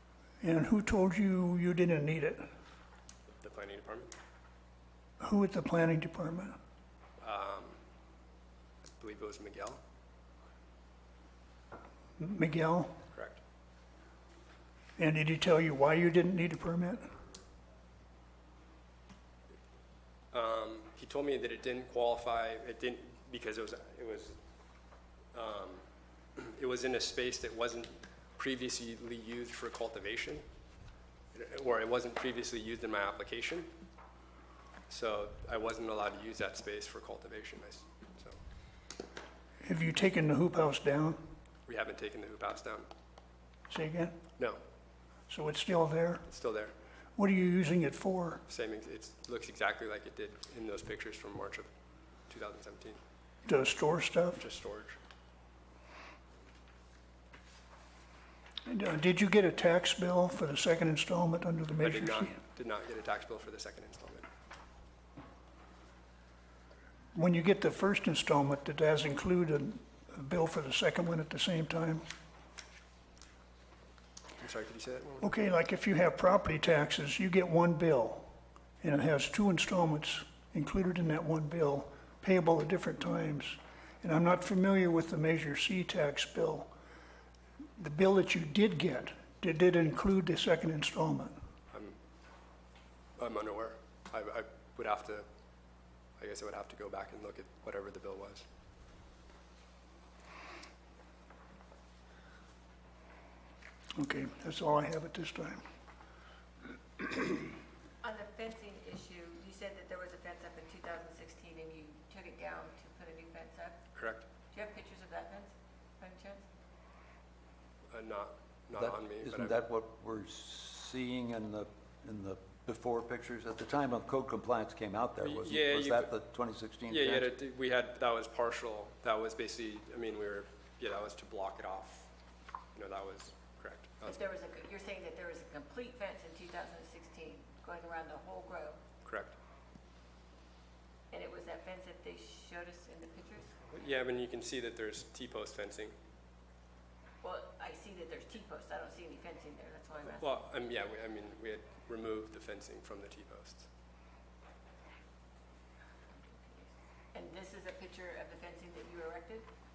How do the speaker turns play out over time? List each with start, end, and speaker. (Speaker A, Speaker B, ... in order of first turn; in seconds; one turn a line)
Speaker A: 0.4-2.4
Speaker B: 3.4-4.1
Speaker A: 5.2-6.6
Speaker B: 7.2-7.8
Speaker B: 9.0-9.8
Speaker A: 12.2-12.9
Speaker B: 13.1-13.4
Speaker A: 15.0-17.0
Speaker B: 20.3-24.4
Speaker B: 25.3-25.8
Speaker B: 26.4-30.4
Speaker B: 31.3-33.7
Speaker B: 34.9-38.4
Speaker A: 39.6-41.2
Speaker B: 41.7-42.9
Speaker A: 43.7-44.2
Speaker A: 45.3-46.2
Speaker B: 46.3-46.8
Speaker A: 47.2-48.4
Speaker B: 48.5-51.7
Speaker B: 52.3-53.0
Speaker A: 53.5-54.4
Speaker B: 54.4-55.0
Speaker A: 58.7-62.4
Speaker B: 61.8-64.3
Speaker A: 67.1-72.0
Speaker B: 74.4-75.3
Speaker A: 75.2-78.3
Speaker A: 78.8-86.7
Speaker A: 87.8-91.3
Speaker B: 91.7-92.0
Speaker B: 93.2-95.3
Speaker B: 96.2-98.5
Speaker A: 104.0-105.6
Speaker C: 108.0-113.8
Speaker B: 114.0-114.3
Speaker C: 114.5-116.5
Speaker B: 117.9-119.5
Speaker D: 118.8-127.3
Speaker B: 125.2-126.1
Speaker B: 126.9-132.1
Speaker B: 132.7-134.2
Speaker C: 134.1-138.8
Speaker B: 139.0-139.3
Speaker C: 141.1-143.6
Speaker B: 143.6-145.9
Speaker C: 147.2-150.4
Speaker B: 150.1-153.7
Speaker C: 156.2-159.5